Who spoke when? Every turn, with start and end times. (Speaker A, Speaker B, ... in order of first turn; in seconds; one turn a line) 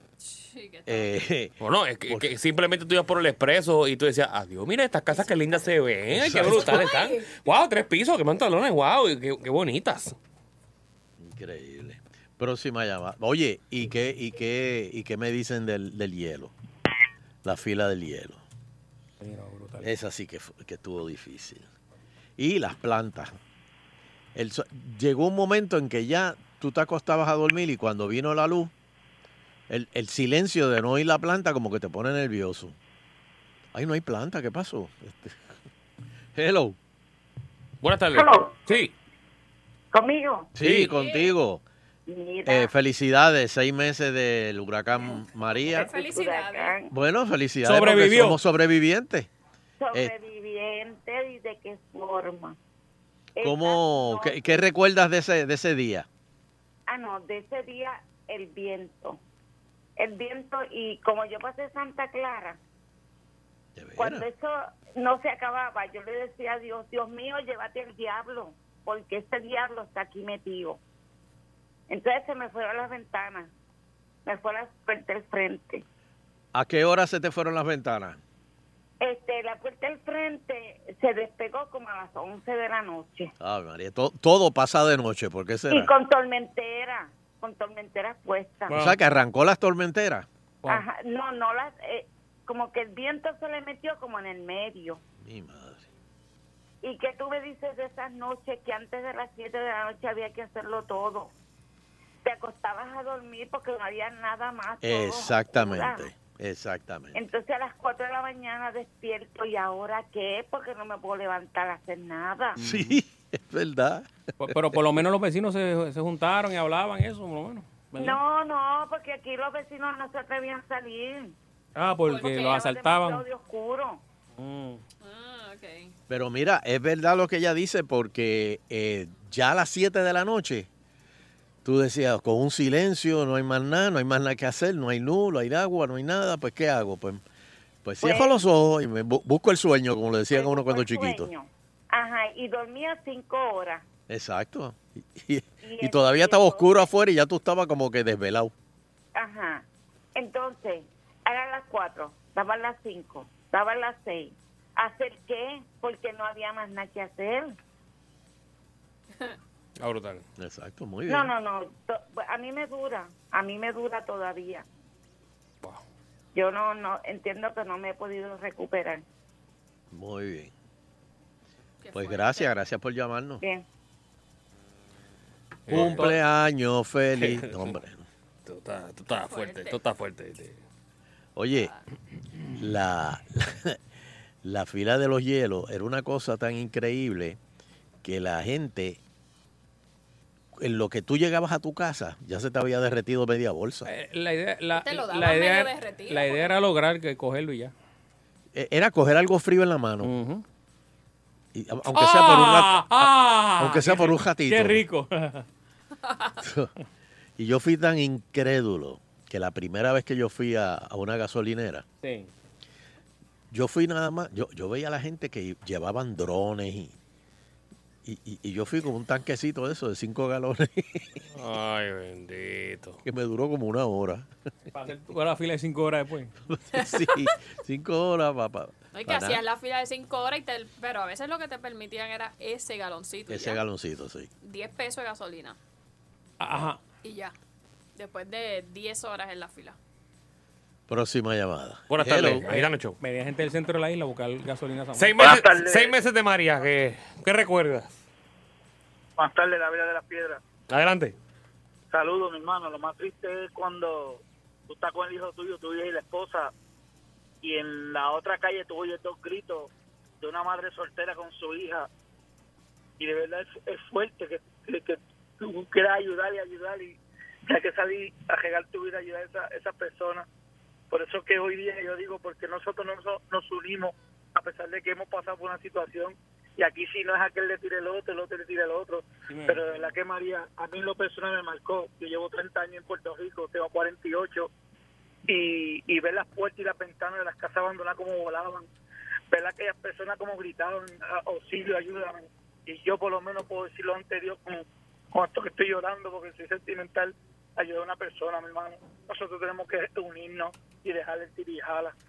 Speaker A: 0.2-1.1
Speaker B: 0.9-1.5
Speaker C: 1.6-10.1
Speaker A: 5.1-5.6
Speaker B: 6.1-6.9
Speaker A: 6.5-7.5
Speaker B: 11.2-16.5
Speaker B: 17.4-18.4
Speaker D: 19.2-19.9
Speaker B: 19.8-21.7
Speaker B: 22.4-23.3
Speaker B: 24.4-28.7
Speaker B: 29.7-32.8
Speaker B: 33.7-35.4
Speaker B: 36.4-36.8
Speaker C: 37.8-38.9
Speaker E: 38.1-38.5
Speaker E: 39.9-40.5
Speaker B: 40.5-41.6
Speaker C: 40.6-40.9
Speaker A: 40.9-41.3
Speaker E: 42.1-42.7
Speaker B: 42.5-45.9
Speaker A: 45.6-46.8
Speaker E: 45.8-46.9
Speaker B: 46.9-49.3
Speaker D: 47.6-48.4
Speaker E: 49.8-52.6
Speaker E: 53.4-54.4
Speaker B: 53.4-56.1
Speaker E: 56.9-59.2
Speaker E: 60.0-62.6
Speaker B: 63.8-64.3
Speaker E: 64.0-70.8
Speaker E: 71.9-73.5
Speaker E: 74.2-75.8
Speaker B: 76.5-78.2
Speaker E: 79.0-83.3
Speaker B: 83.4-85.9
Speaker E: 85.7-88.8
Speaker D: 88.7-89.0
Speaker B: 88.7-90.3
Speaker E: 90.7-95.0
Speaker B: 95.2-95.9
Speaker E: 96.8-101.3
Speaker E: 102.2-106.1
Speaker B: 104.8-107.2
Speaker E: 107.1-112.6
Speaker D: 112.5-113.0
Speaker B: 112.6-114.8
Speaker D: 114.4-118.2
Speaker E: 118.0-121.4
Speaker D: 121.8-123.2
Speaker A: 122.1-122.7
Speaker E: 122.3-124.0
Speaker D: 124.4-124.8
Speaker A: 125.0-125.9
Speaker B: 126.1-130.7
Speaker B: 131.6-137.2
Speaker B: 137.8-141.3
Speaker E: 138.0-138.4
Speaker E: 140.3-143.9
Speaker B: 144.1-148.5
Speaker E: 145.6-146.9
Speaker E: 149.1-157.6
Speaker C: 159.8-160.2
Speaker B: 160.4-161.3
Speaker E: 161.1-164.7
Speaker E: 166.3-169.0
Speaker B: 169.9-170.5
Speaker A: 171.8-172.5
Speaker B: 171.9-173.4
Speaker C: 175.7-176.1
Speaker B: 175.7-178.0
Speaker D: 175.7-176.1
Speaker C: 177.2-177.8
Speaker C: 178.4-180.6
Speaker A: 179.2-179.8
Speaker B: 181.4-181.7
Speaker A: 181.5-181.8
Speaker B: 182.6-183.8
Speaker B: 184.4-187.4
Speaker B: 188.0-189.0
Speaker B: 190.5-193.9
Speaker D: 193.9-197.7
Speaker A: 194.7-196.6
Speaker B: 198.5-200.1
Speaker D: 200.0-200.4
Speaker B: 201.5-204.8
Speaker D: 201.9-205.4
Speaker A: 206.0-206.4
Speaker B: 206.4-206.7
Speaker B: 207.4-211.8
Speaker D: 212.0-212.3
Speaker B: 213.5-216.9
Speaker B: 218.0-221.2
Speaker C: 221.3-223.0
Speaker B: 223.0-224.3
Speaker D: 224.7-226.3
Speaker B: 226.5-229.4
Speaker A: 226.8-227.1
Speaker A: 228.9-233.6
Speaker B: 233.3-234.3
Speaker A: 234.4-235.6
Speaker D: 236.4-236.8
Speaker A: 237.0-237.3
Speaker A: 237.9-239.8
Speaker B: 240.9-242.4
Speaker C: 241.9-242.9
Speaker D: 242.5-245.2
Speaker C: 245.0-248.0
Speaker F: 245.2-245.9
Speaker F: 249.2-250.4
Speaker C: 250.7-251.1
Speaker F: 251.9-256.5
Speaker F: 257.4-261.9
Speaker F: 263.0-270.2
Speaker F: 270.9-284.5
Speaker D: 279.3-279.9
Speaker F: 285.3-288.7
Speaker F: 289.3-301.9